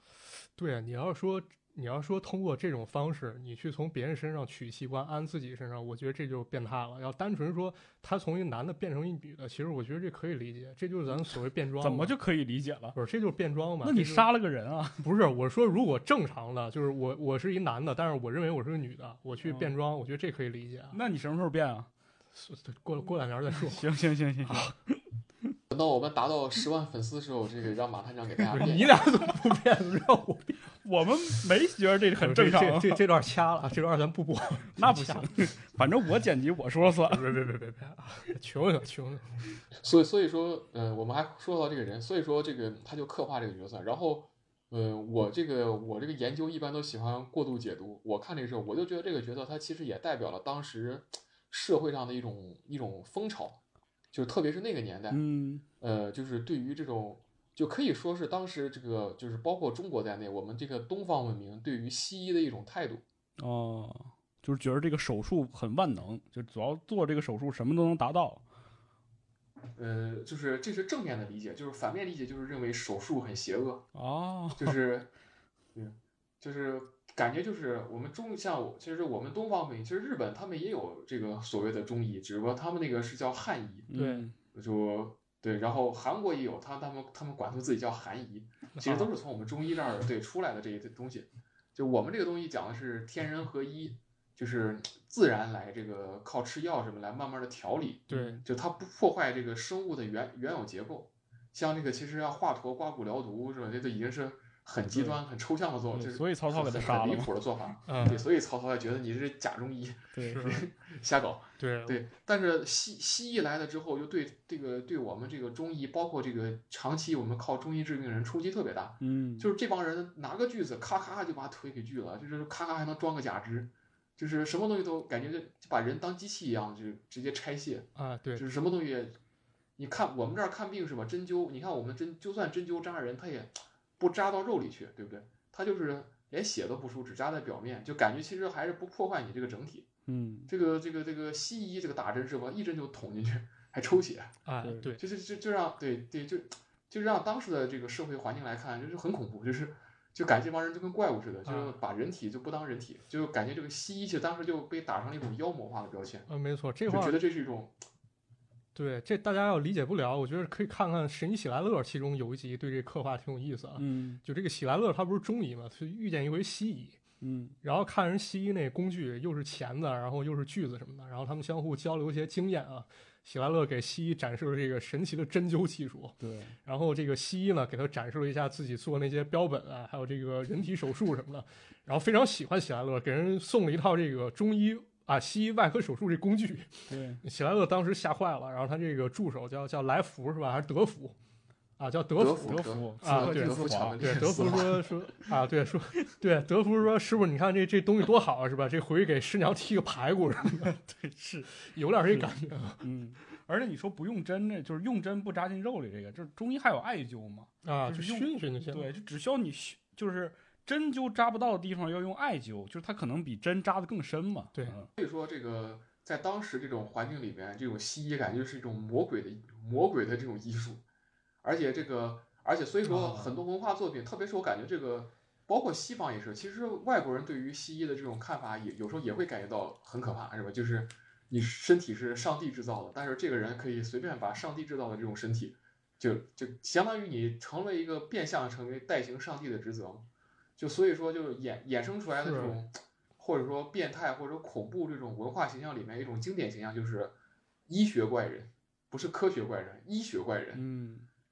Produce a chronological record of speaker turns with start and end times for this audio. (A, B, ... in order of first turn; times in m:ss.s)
0:00.6-0:12.1 A
0:11.8-0:13.0 B
0:12.9-0:14.3 A
0:13.8-0:15.0 B
0:15.0-0:21.0 A
0:19.4-0:19.7 B
0:20.9-0:21.9 B
0:22.3-0:23.9 A
0:23.5-0:25.0 B
0:24.4-0:24.7 A
0:25.7-0:29.0 C
0:28.5-0:30.6 A
0:30.8-0:33.0 B
0:32.2-0:35.3 A
0:34.7-0:37.3 B
0:37.1-0:39.3 A
0:39.8-0:53.6 C
0:54.1-0:55.2 C
0:55.1-0:55.6 B
0:55.8-1:03.0 C
1:03.4-1:08.4 B
1:09.8-1:13.9 C
1:13.9-1:14.8 B
1:14.5-1:15.1 C
1:15.7-1:23.9 C
1:23.9-1:24.3 B
1:23.9-1:24.3 A
1:24.5-2:09.2 C
1:28.7-1:29.1 A
1:38.1-1:38.4 A
1:44.9-1:45.2 B
1:45.9-1:47.3 B
1:47.9-1:48.2 A
1:50.1-1:50.6 B
1:50.2-1:50.6 A
1:51.6-1:52.0 A
1:59.0-1:59.5 B
2:08.0-2:08.4 A
2:09.8-2:19.9 C
2:20.1-2:20.5 B
2:20.5-2:24.4 C
2:24.4-2:25.0 A
2:24.6-2:24.9 B
2:25.0-2:36.3 C
2:31.4-2:31.8 A
2:36.3-2:37.2 A
2:36.9-2:37.8 C
2:38.7-2:47.0 A
2:43.8-2:44.2 B
2:47.2-2:47.6 B
2:47.6-3:11.2 A
2:56.2-2:56.5 B
3:06.9-3:07.2 B
3:11.8-3:20.8 A
3:12.2-3:14.8 C
3:12.4-3:14.7 B
3:20.7-3:21.5 B
3:21.6-3:22.8 A
3:22.8-3:34.9 B
3:27.6-3:28.9 A
3:35.0-3:40.8 C
3:41.4-4:07.1 C
3:42.9-3:43.3 A
4:02.2-4:02.6 A
4:07.7-4:10.6 C
4:10.5-4:11.1 B